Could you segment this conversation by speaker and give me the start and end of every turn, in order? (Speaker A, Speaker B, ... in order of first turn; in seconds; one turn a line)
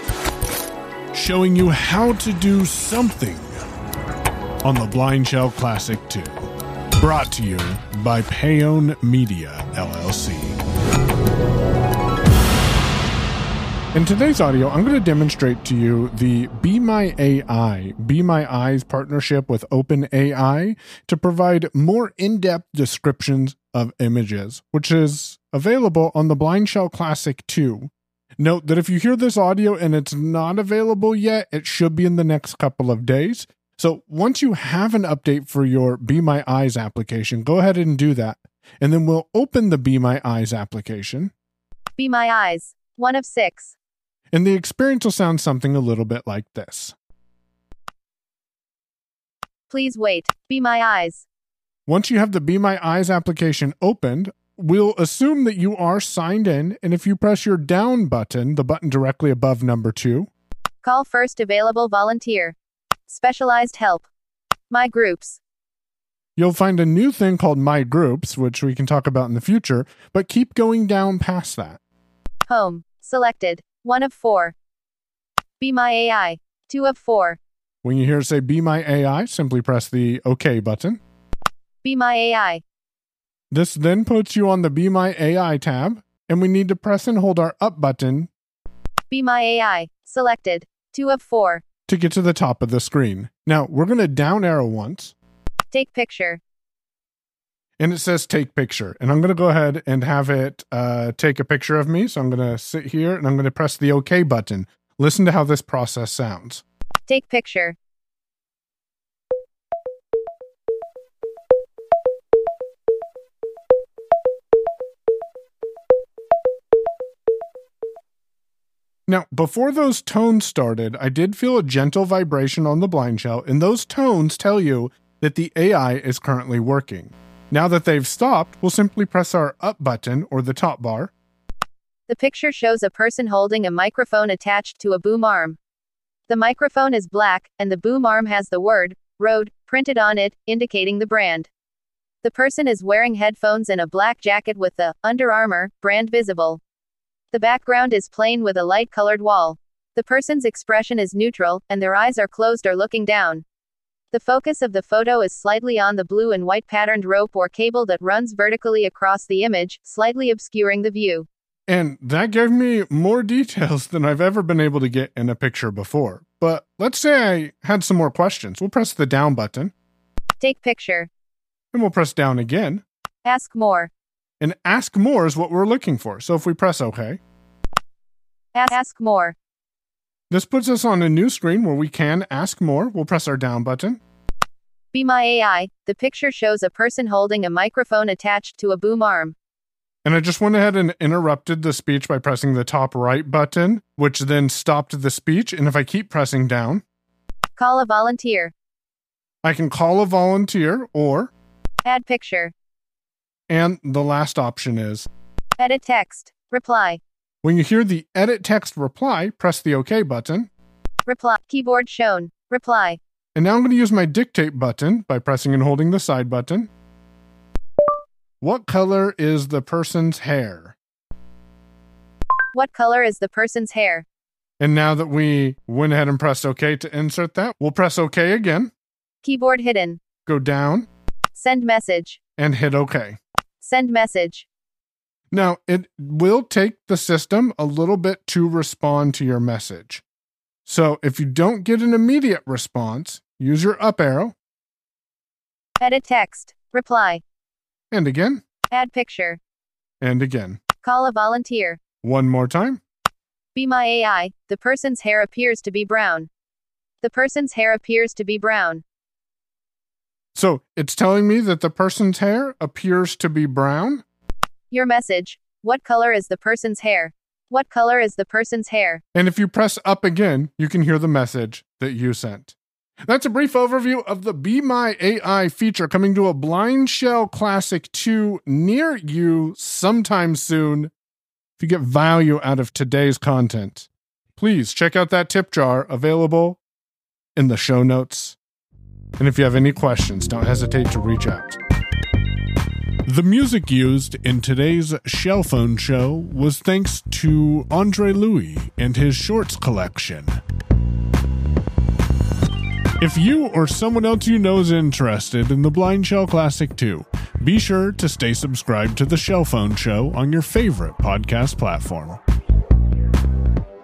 Speaker A: 1.1-3.6
Speaker A: 4.6-10.6
Speaker A: 13.9-41.3
Speaker B: 42.0-43.8
Speaker A: 44.3-47.0
Speaker B: 49.7-51.3
Speaker A: 51.9-60.3
Speaker B: 60.8-62.6
Speaker B: 63.1-64.1
Speaker B: 64.7-65.4
Speaker A: 66.4-71.8
Speaker B: 72.5-74.5
Speaker B: 75.6-77.4
Speaker A: 77.8-81.0
Speaker B: 81.8-82.6
Speaker A: 83.5-88.3
Speaker B: 89.1-91.6
Speaker A: 91.9-95.2
Speaker B: 95.7-96.4
Speaker A: 97.8-106.6
Speaker B: 107.1-107.8
Speaker A: 119.1-131.1
Speaker B: 132.1-135.6
Speaker B: 136.3-141.5
Speaker B: 142.2-146.6
Speaker B: 147.3-153.4
Speaker B: 154.1-161.3
Speaker A: 161.7-169.7
Speaker B: 170.4-171.1
Speaker A: 171.7-172.8
Speaker B: 173.2-173.9
Speaker A: 174.4-177.2
Speaker B: 178.5-179.4
Speaker A: 180.3-184.0
Speaker B: 184.9-189.3
Speaker A: 190.1-196.8
Speaker B: 197.6-198.5
Speaker A: 199.4-201.3
Speaker B: 201.8-202.5
Speaker A: 203.5-205.1
Speaker B: 205.6-207.0
Speaker A: 207.4-210.5
Speaker B: 211.1-213.0
Speaker A: 213.3-216.7
Speaker A: 218.4-220.8
Speaker B: 222.5-224.1
Speaker A: 224.6-228.7
Speaker B: 229.2-230.0
Speaker A: 230.3-230.9
Speaker B: 231.3-232.2
Speaker A: 232.4-233.2
Speaker B: 233.6-234.5
Speaker A: 235.3-240.0
Speaker A: 240.7-244.4
Speaker B: 245.8-247.2
Speaker A: 247.9-248.4
Speaker B: 248.7-249.4
Speaker A: 250.0-250.6
Speaker B: 250.8-251.8
Speaker A: 252.0-252.8
Speaker B: 253.6-256.3
Speaker B: 257.0-258.8
Speaker A: 260.4-264.1
Speaker B: 264.7-269.0
Speaker A: 269.1-272.6
Speaker A: 273.1-280.9
Speaker A: 281.6-286.6
Speaker A: 287.4-288.4
Speaker A: 289.2-291.6
Speaker A: 293.1-300.4
Speaker A: 303.0-312.2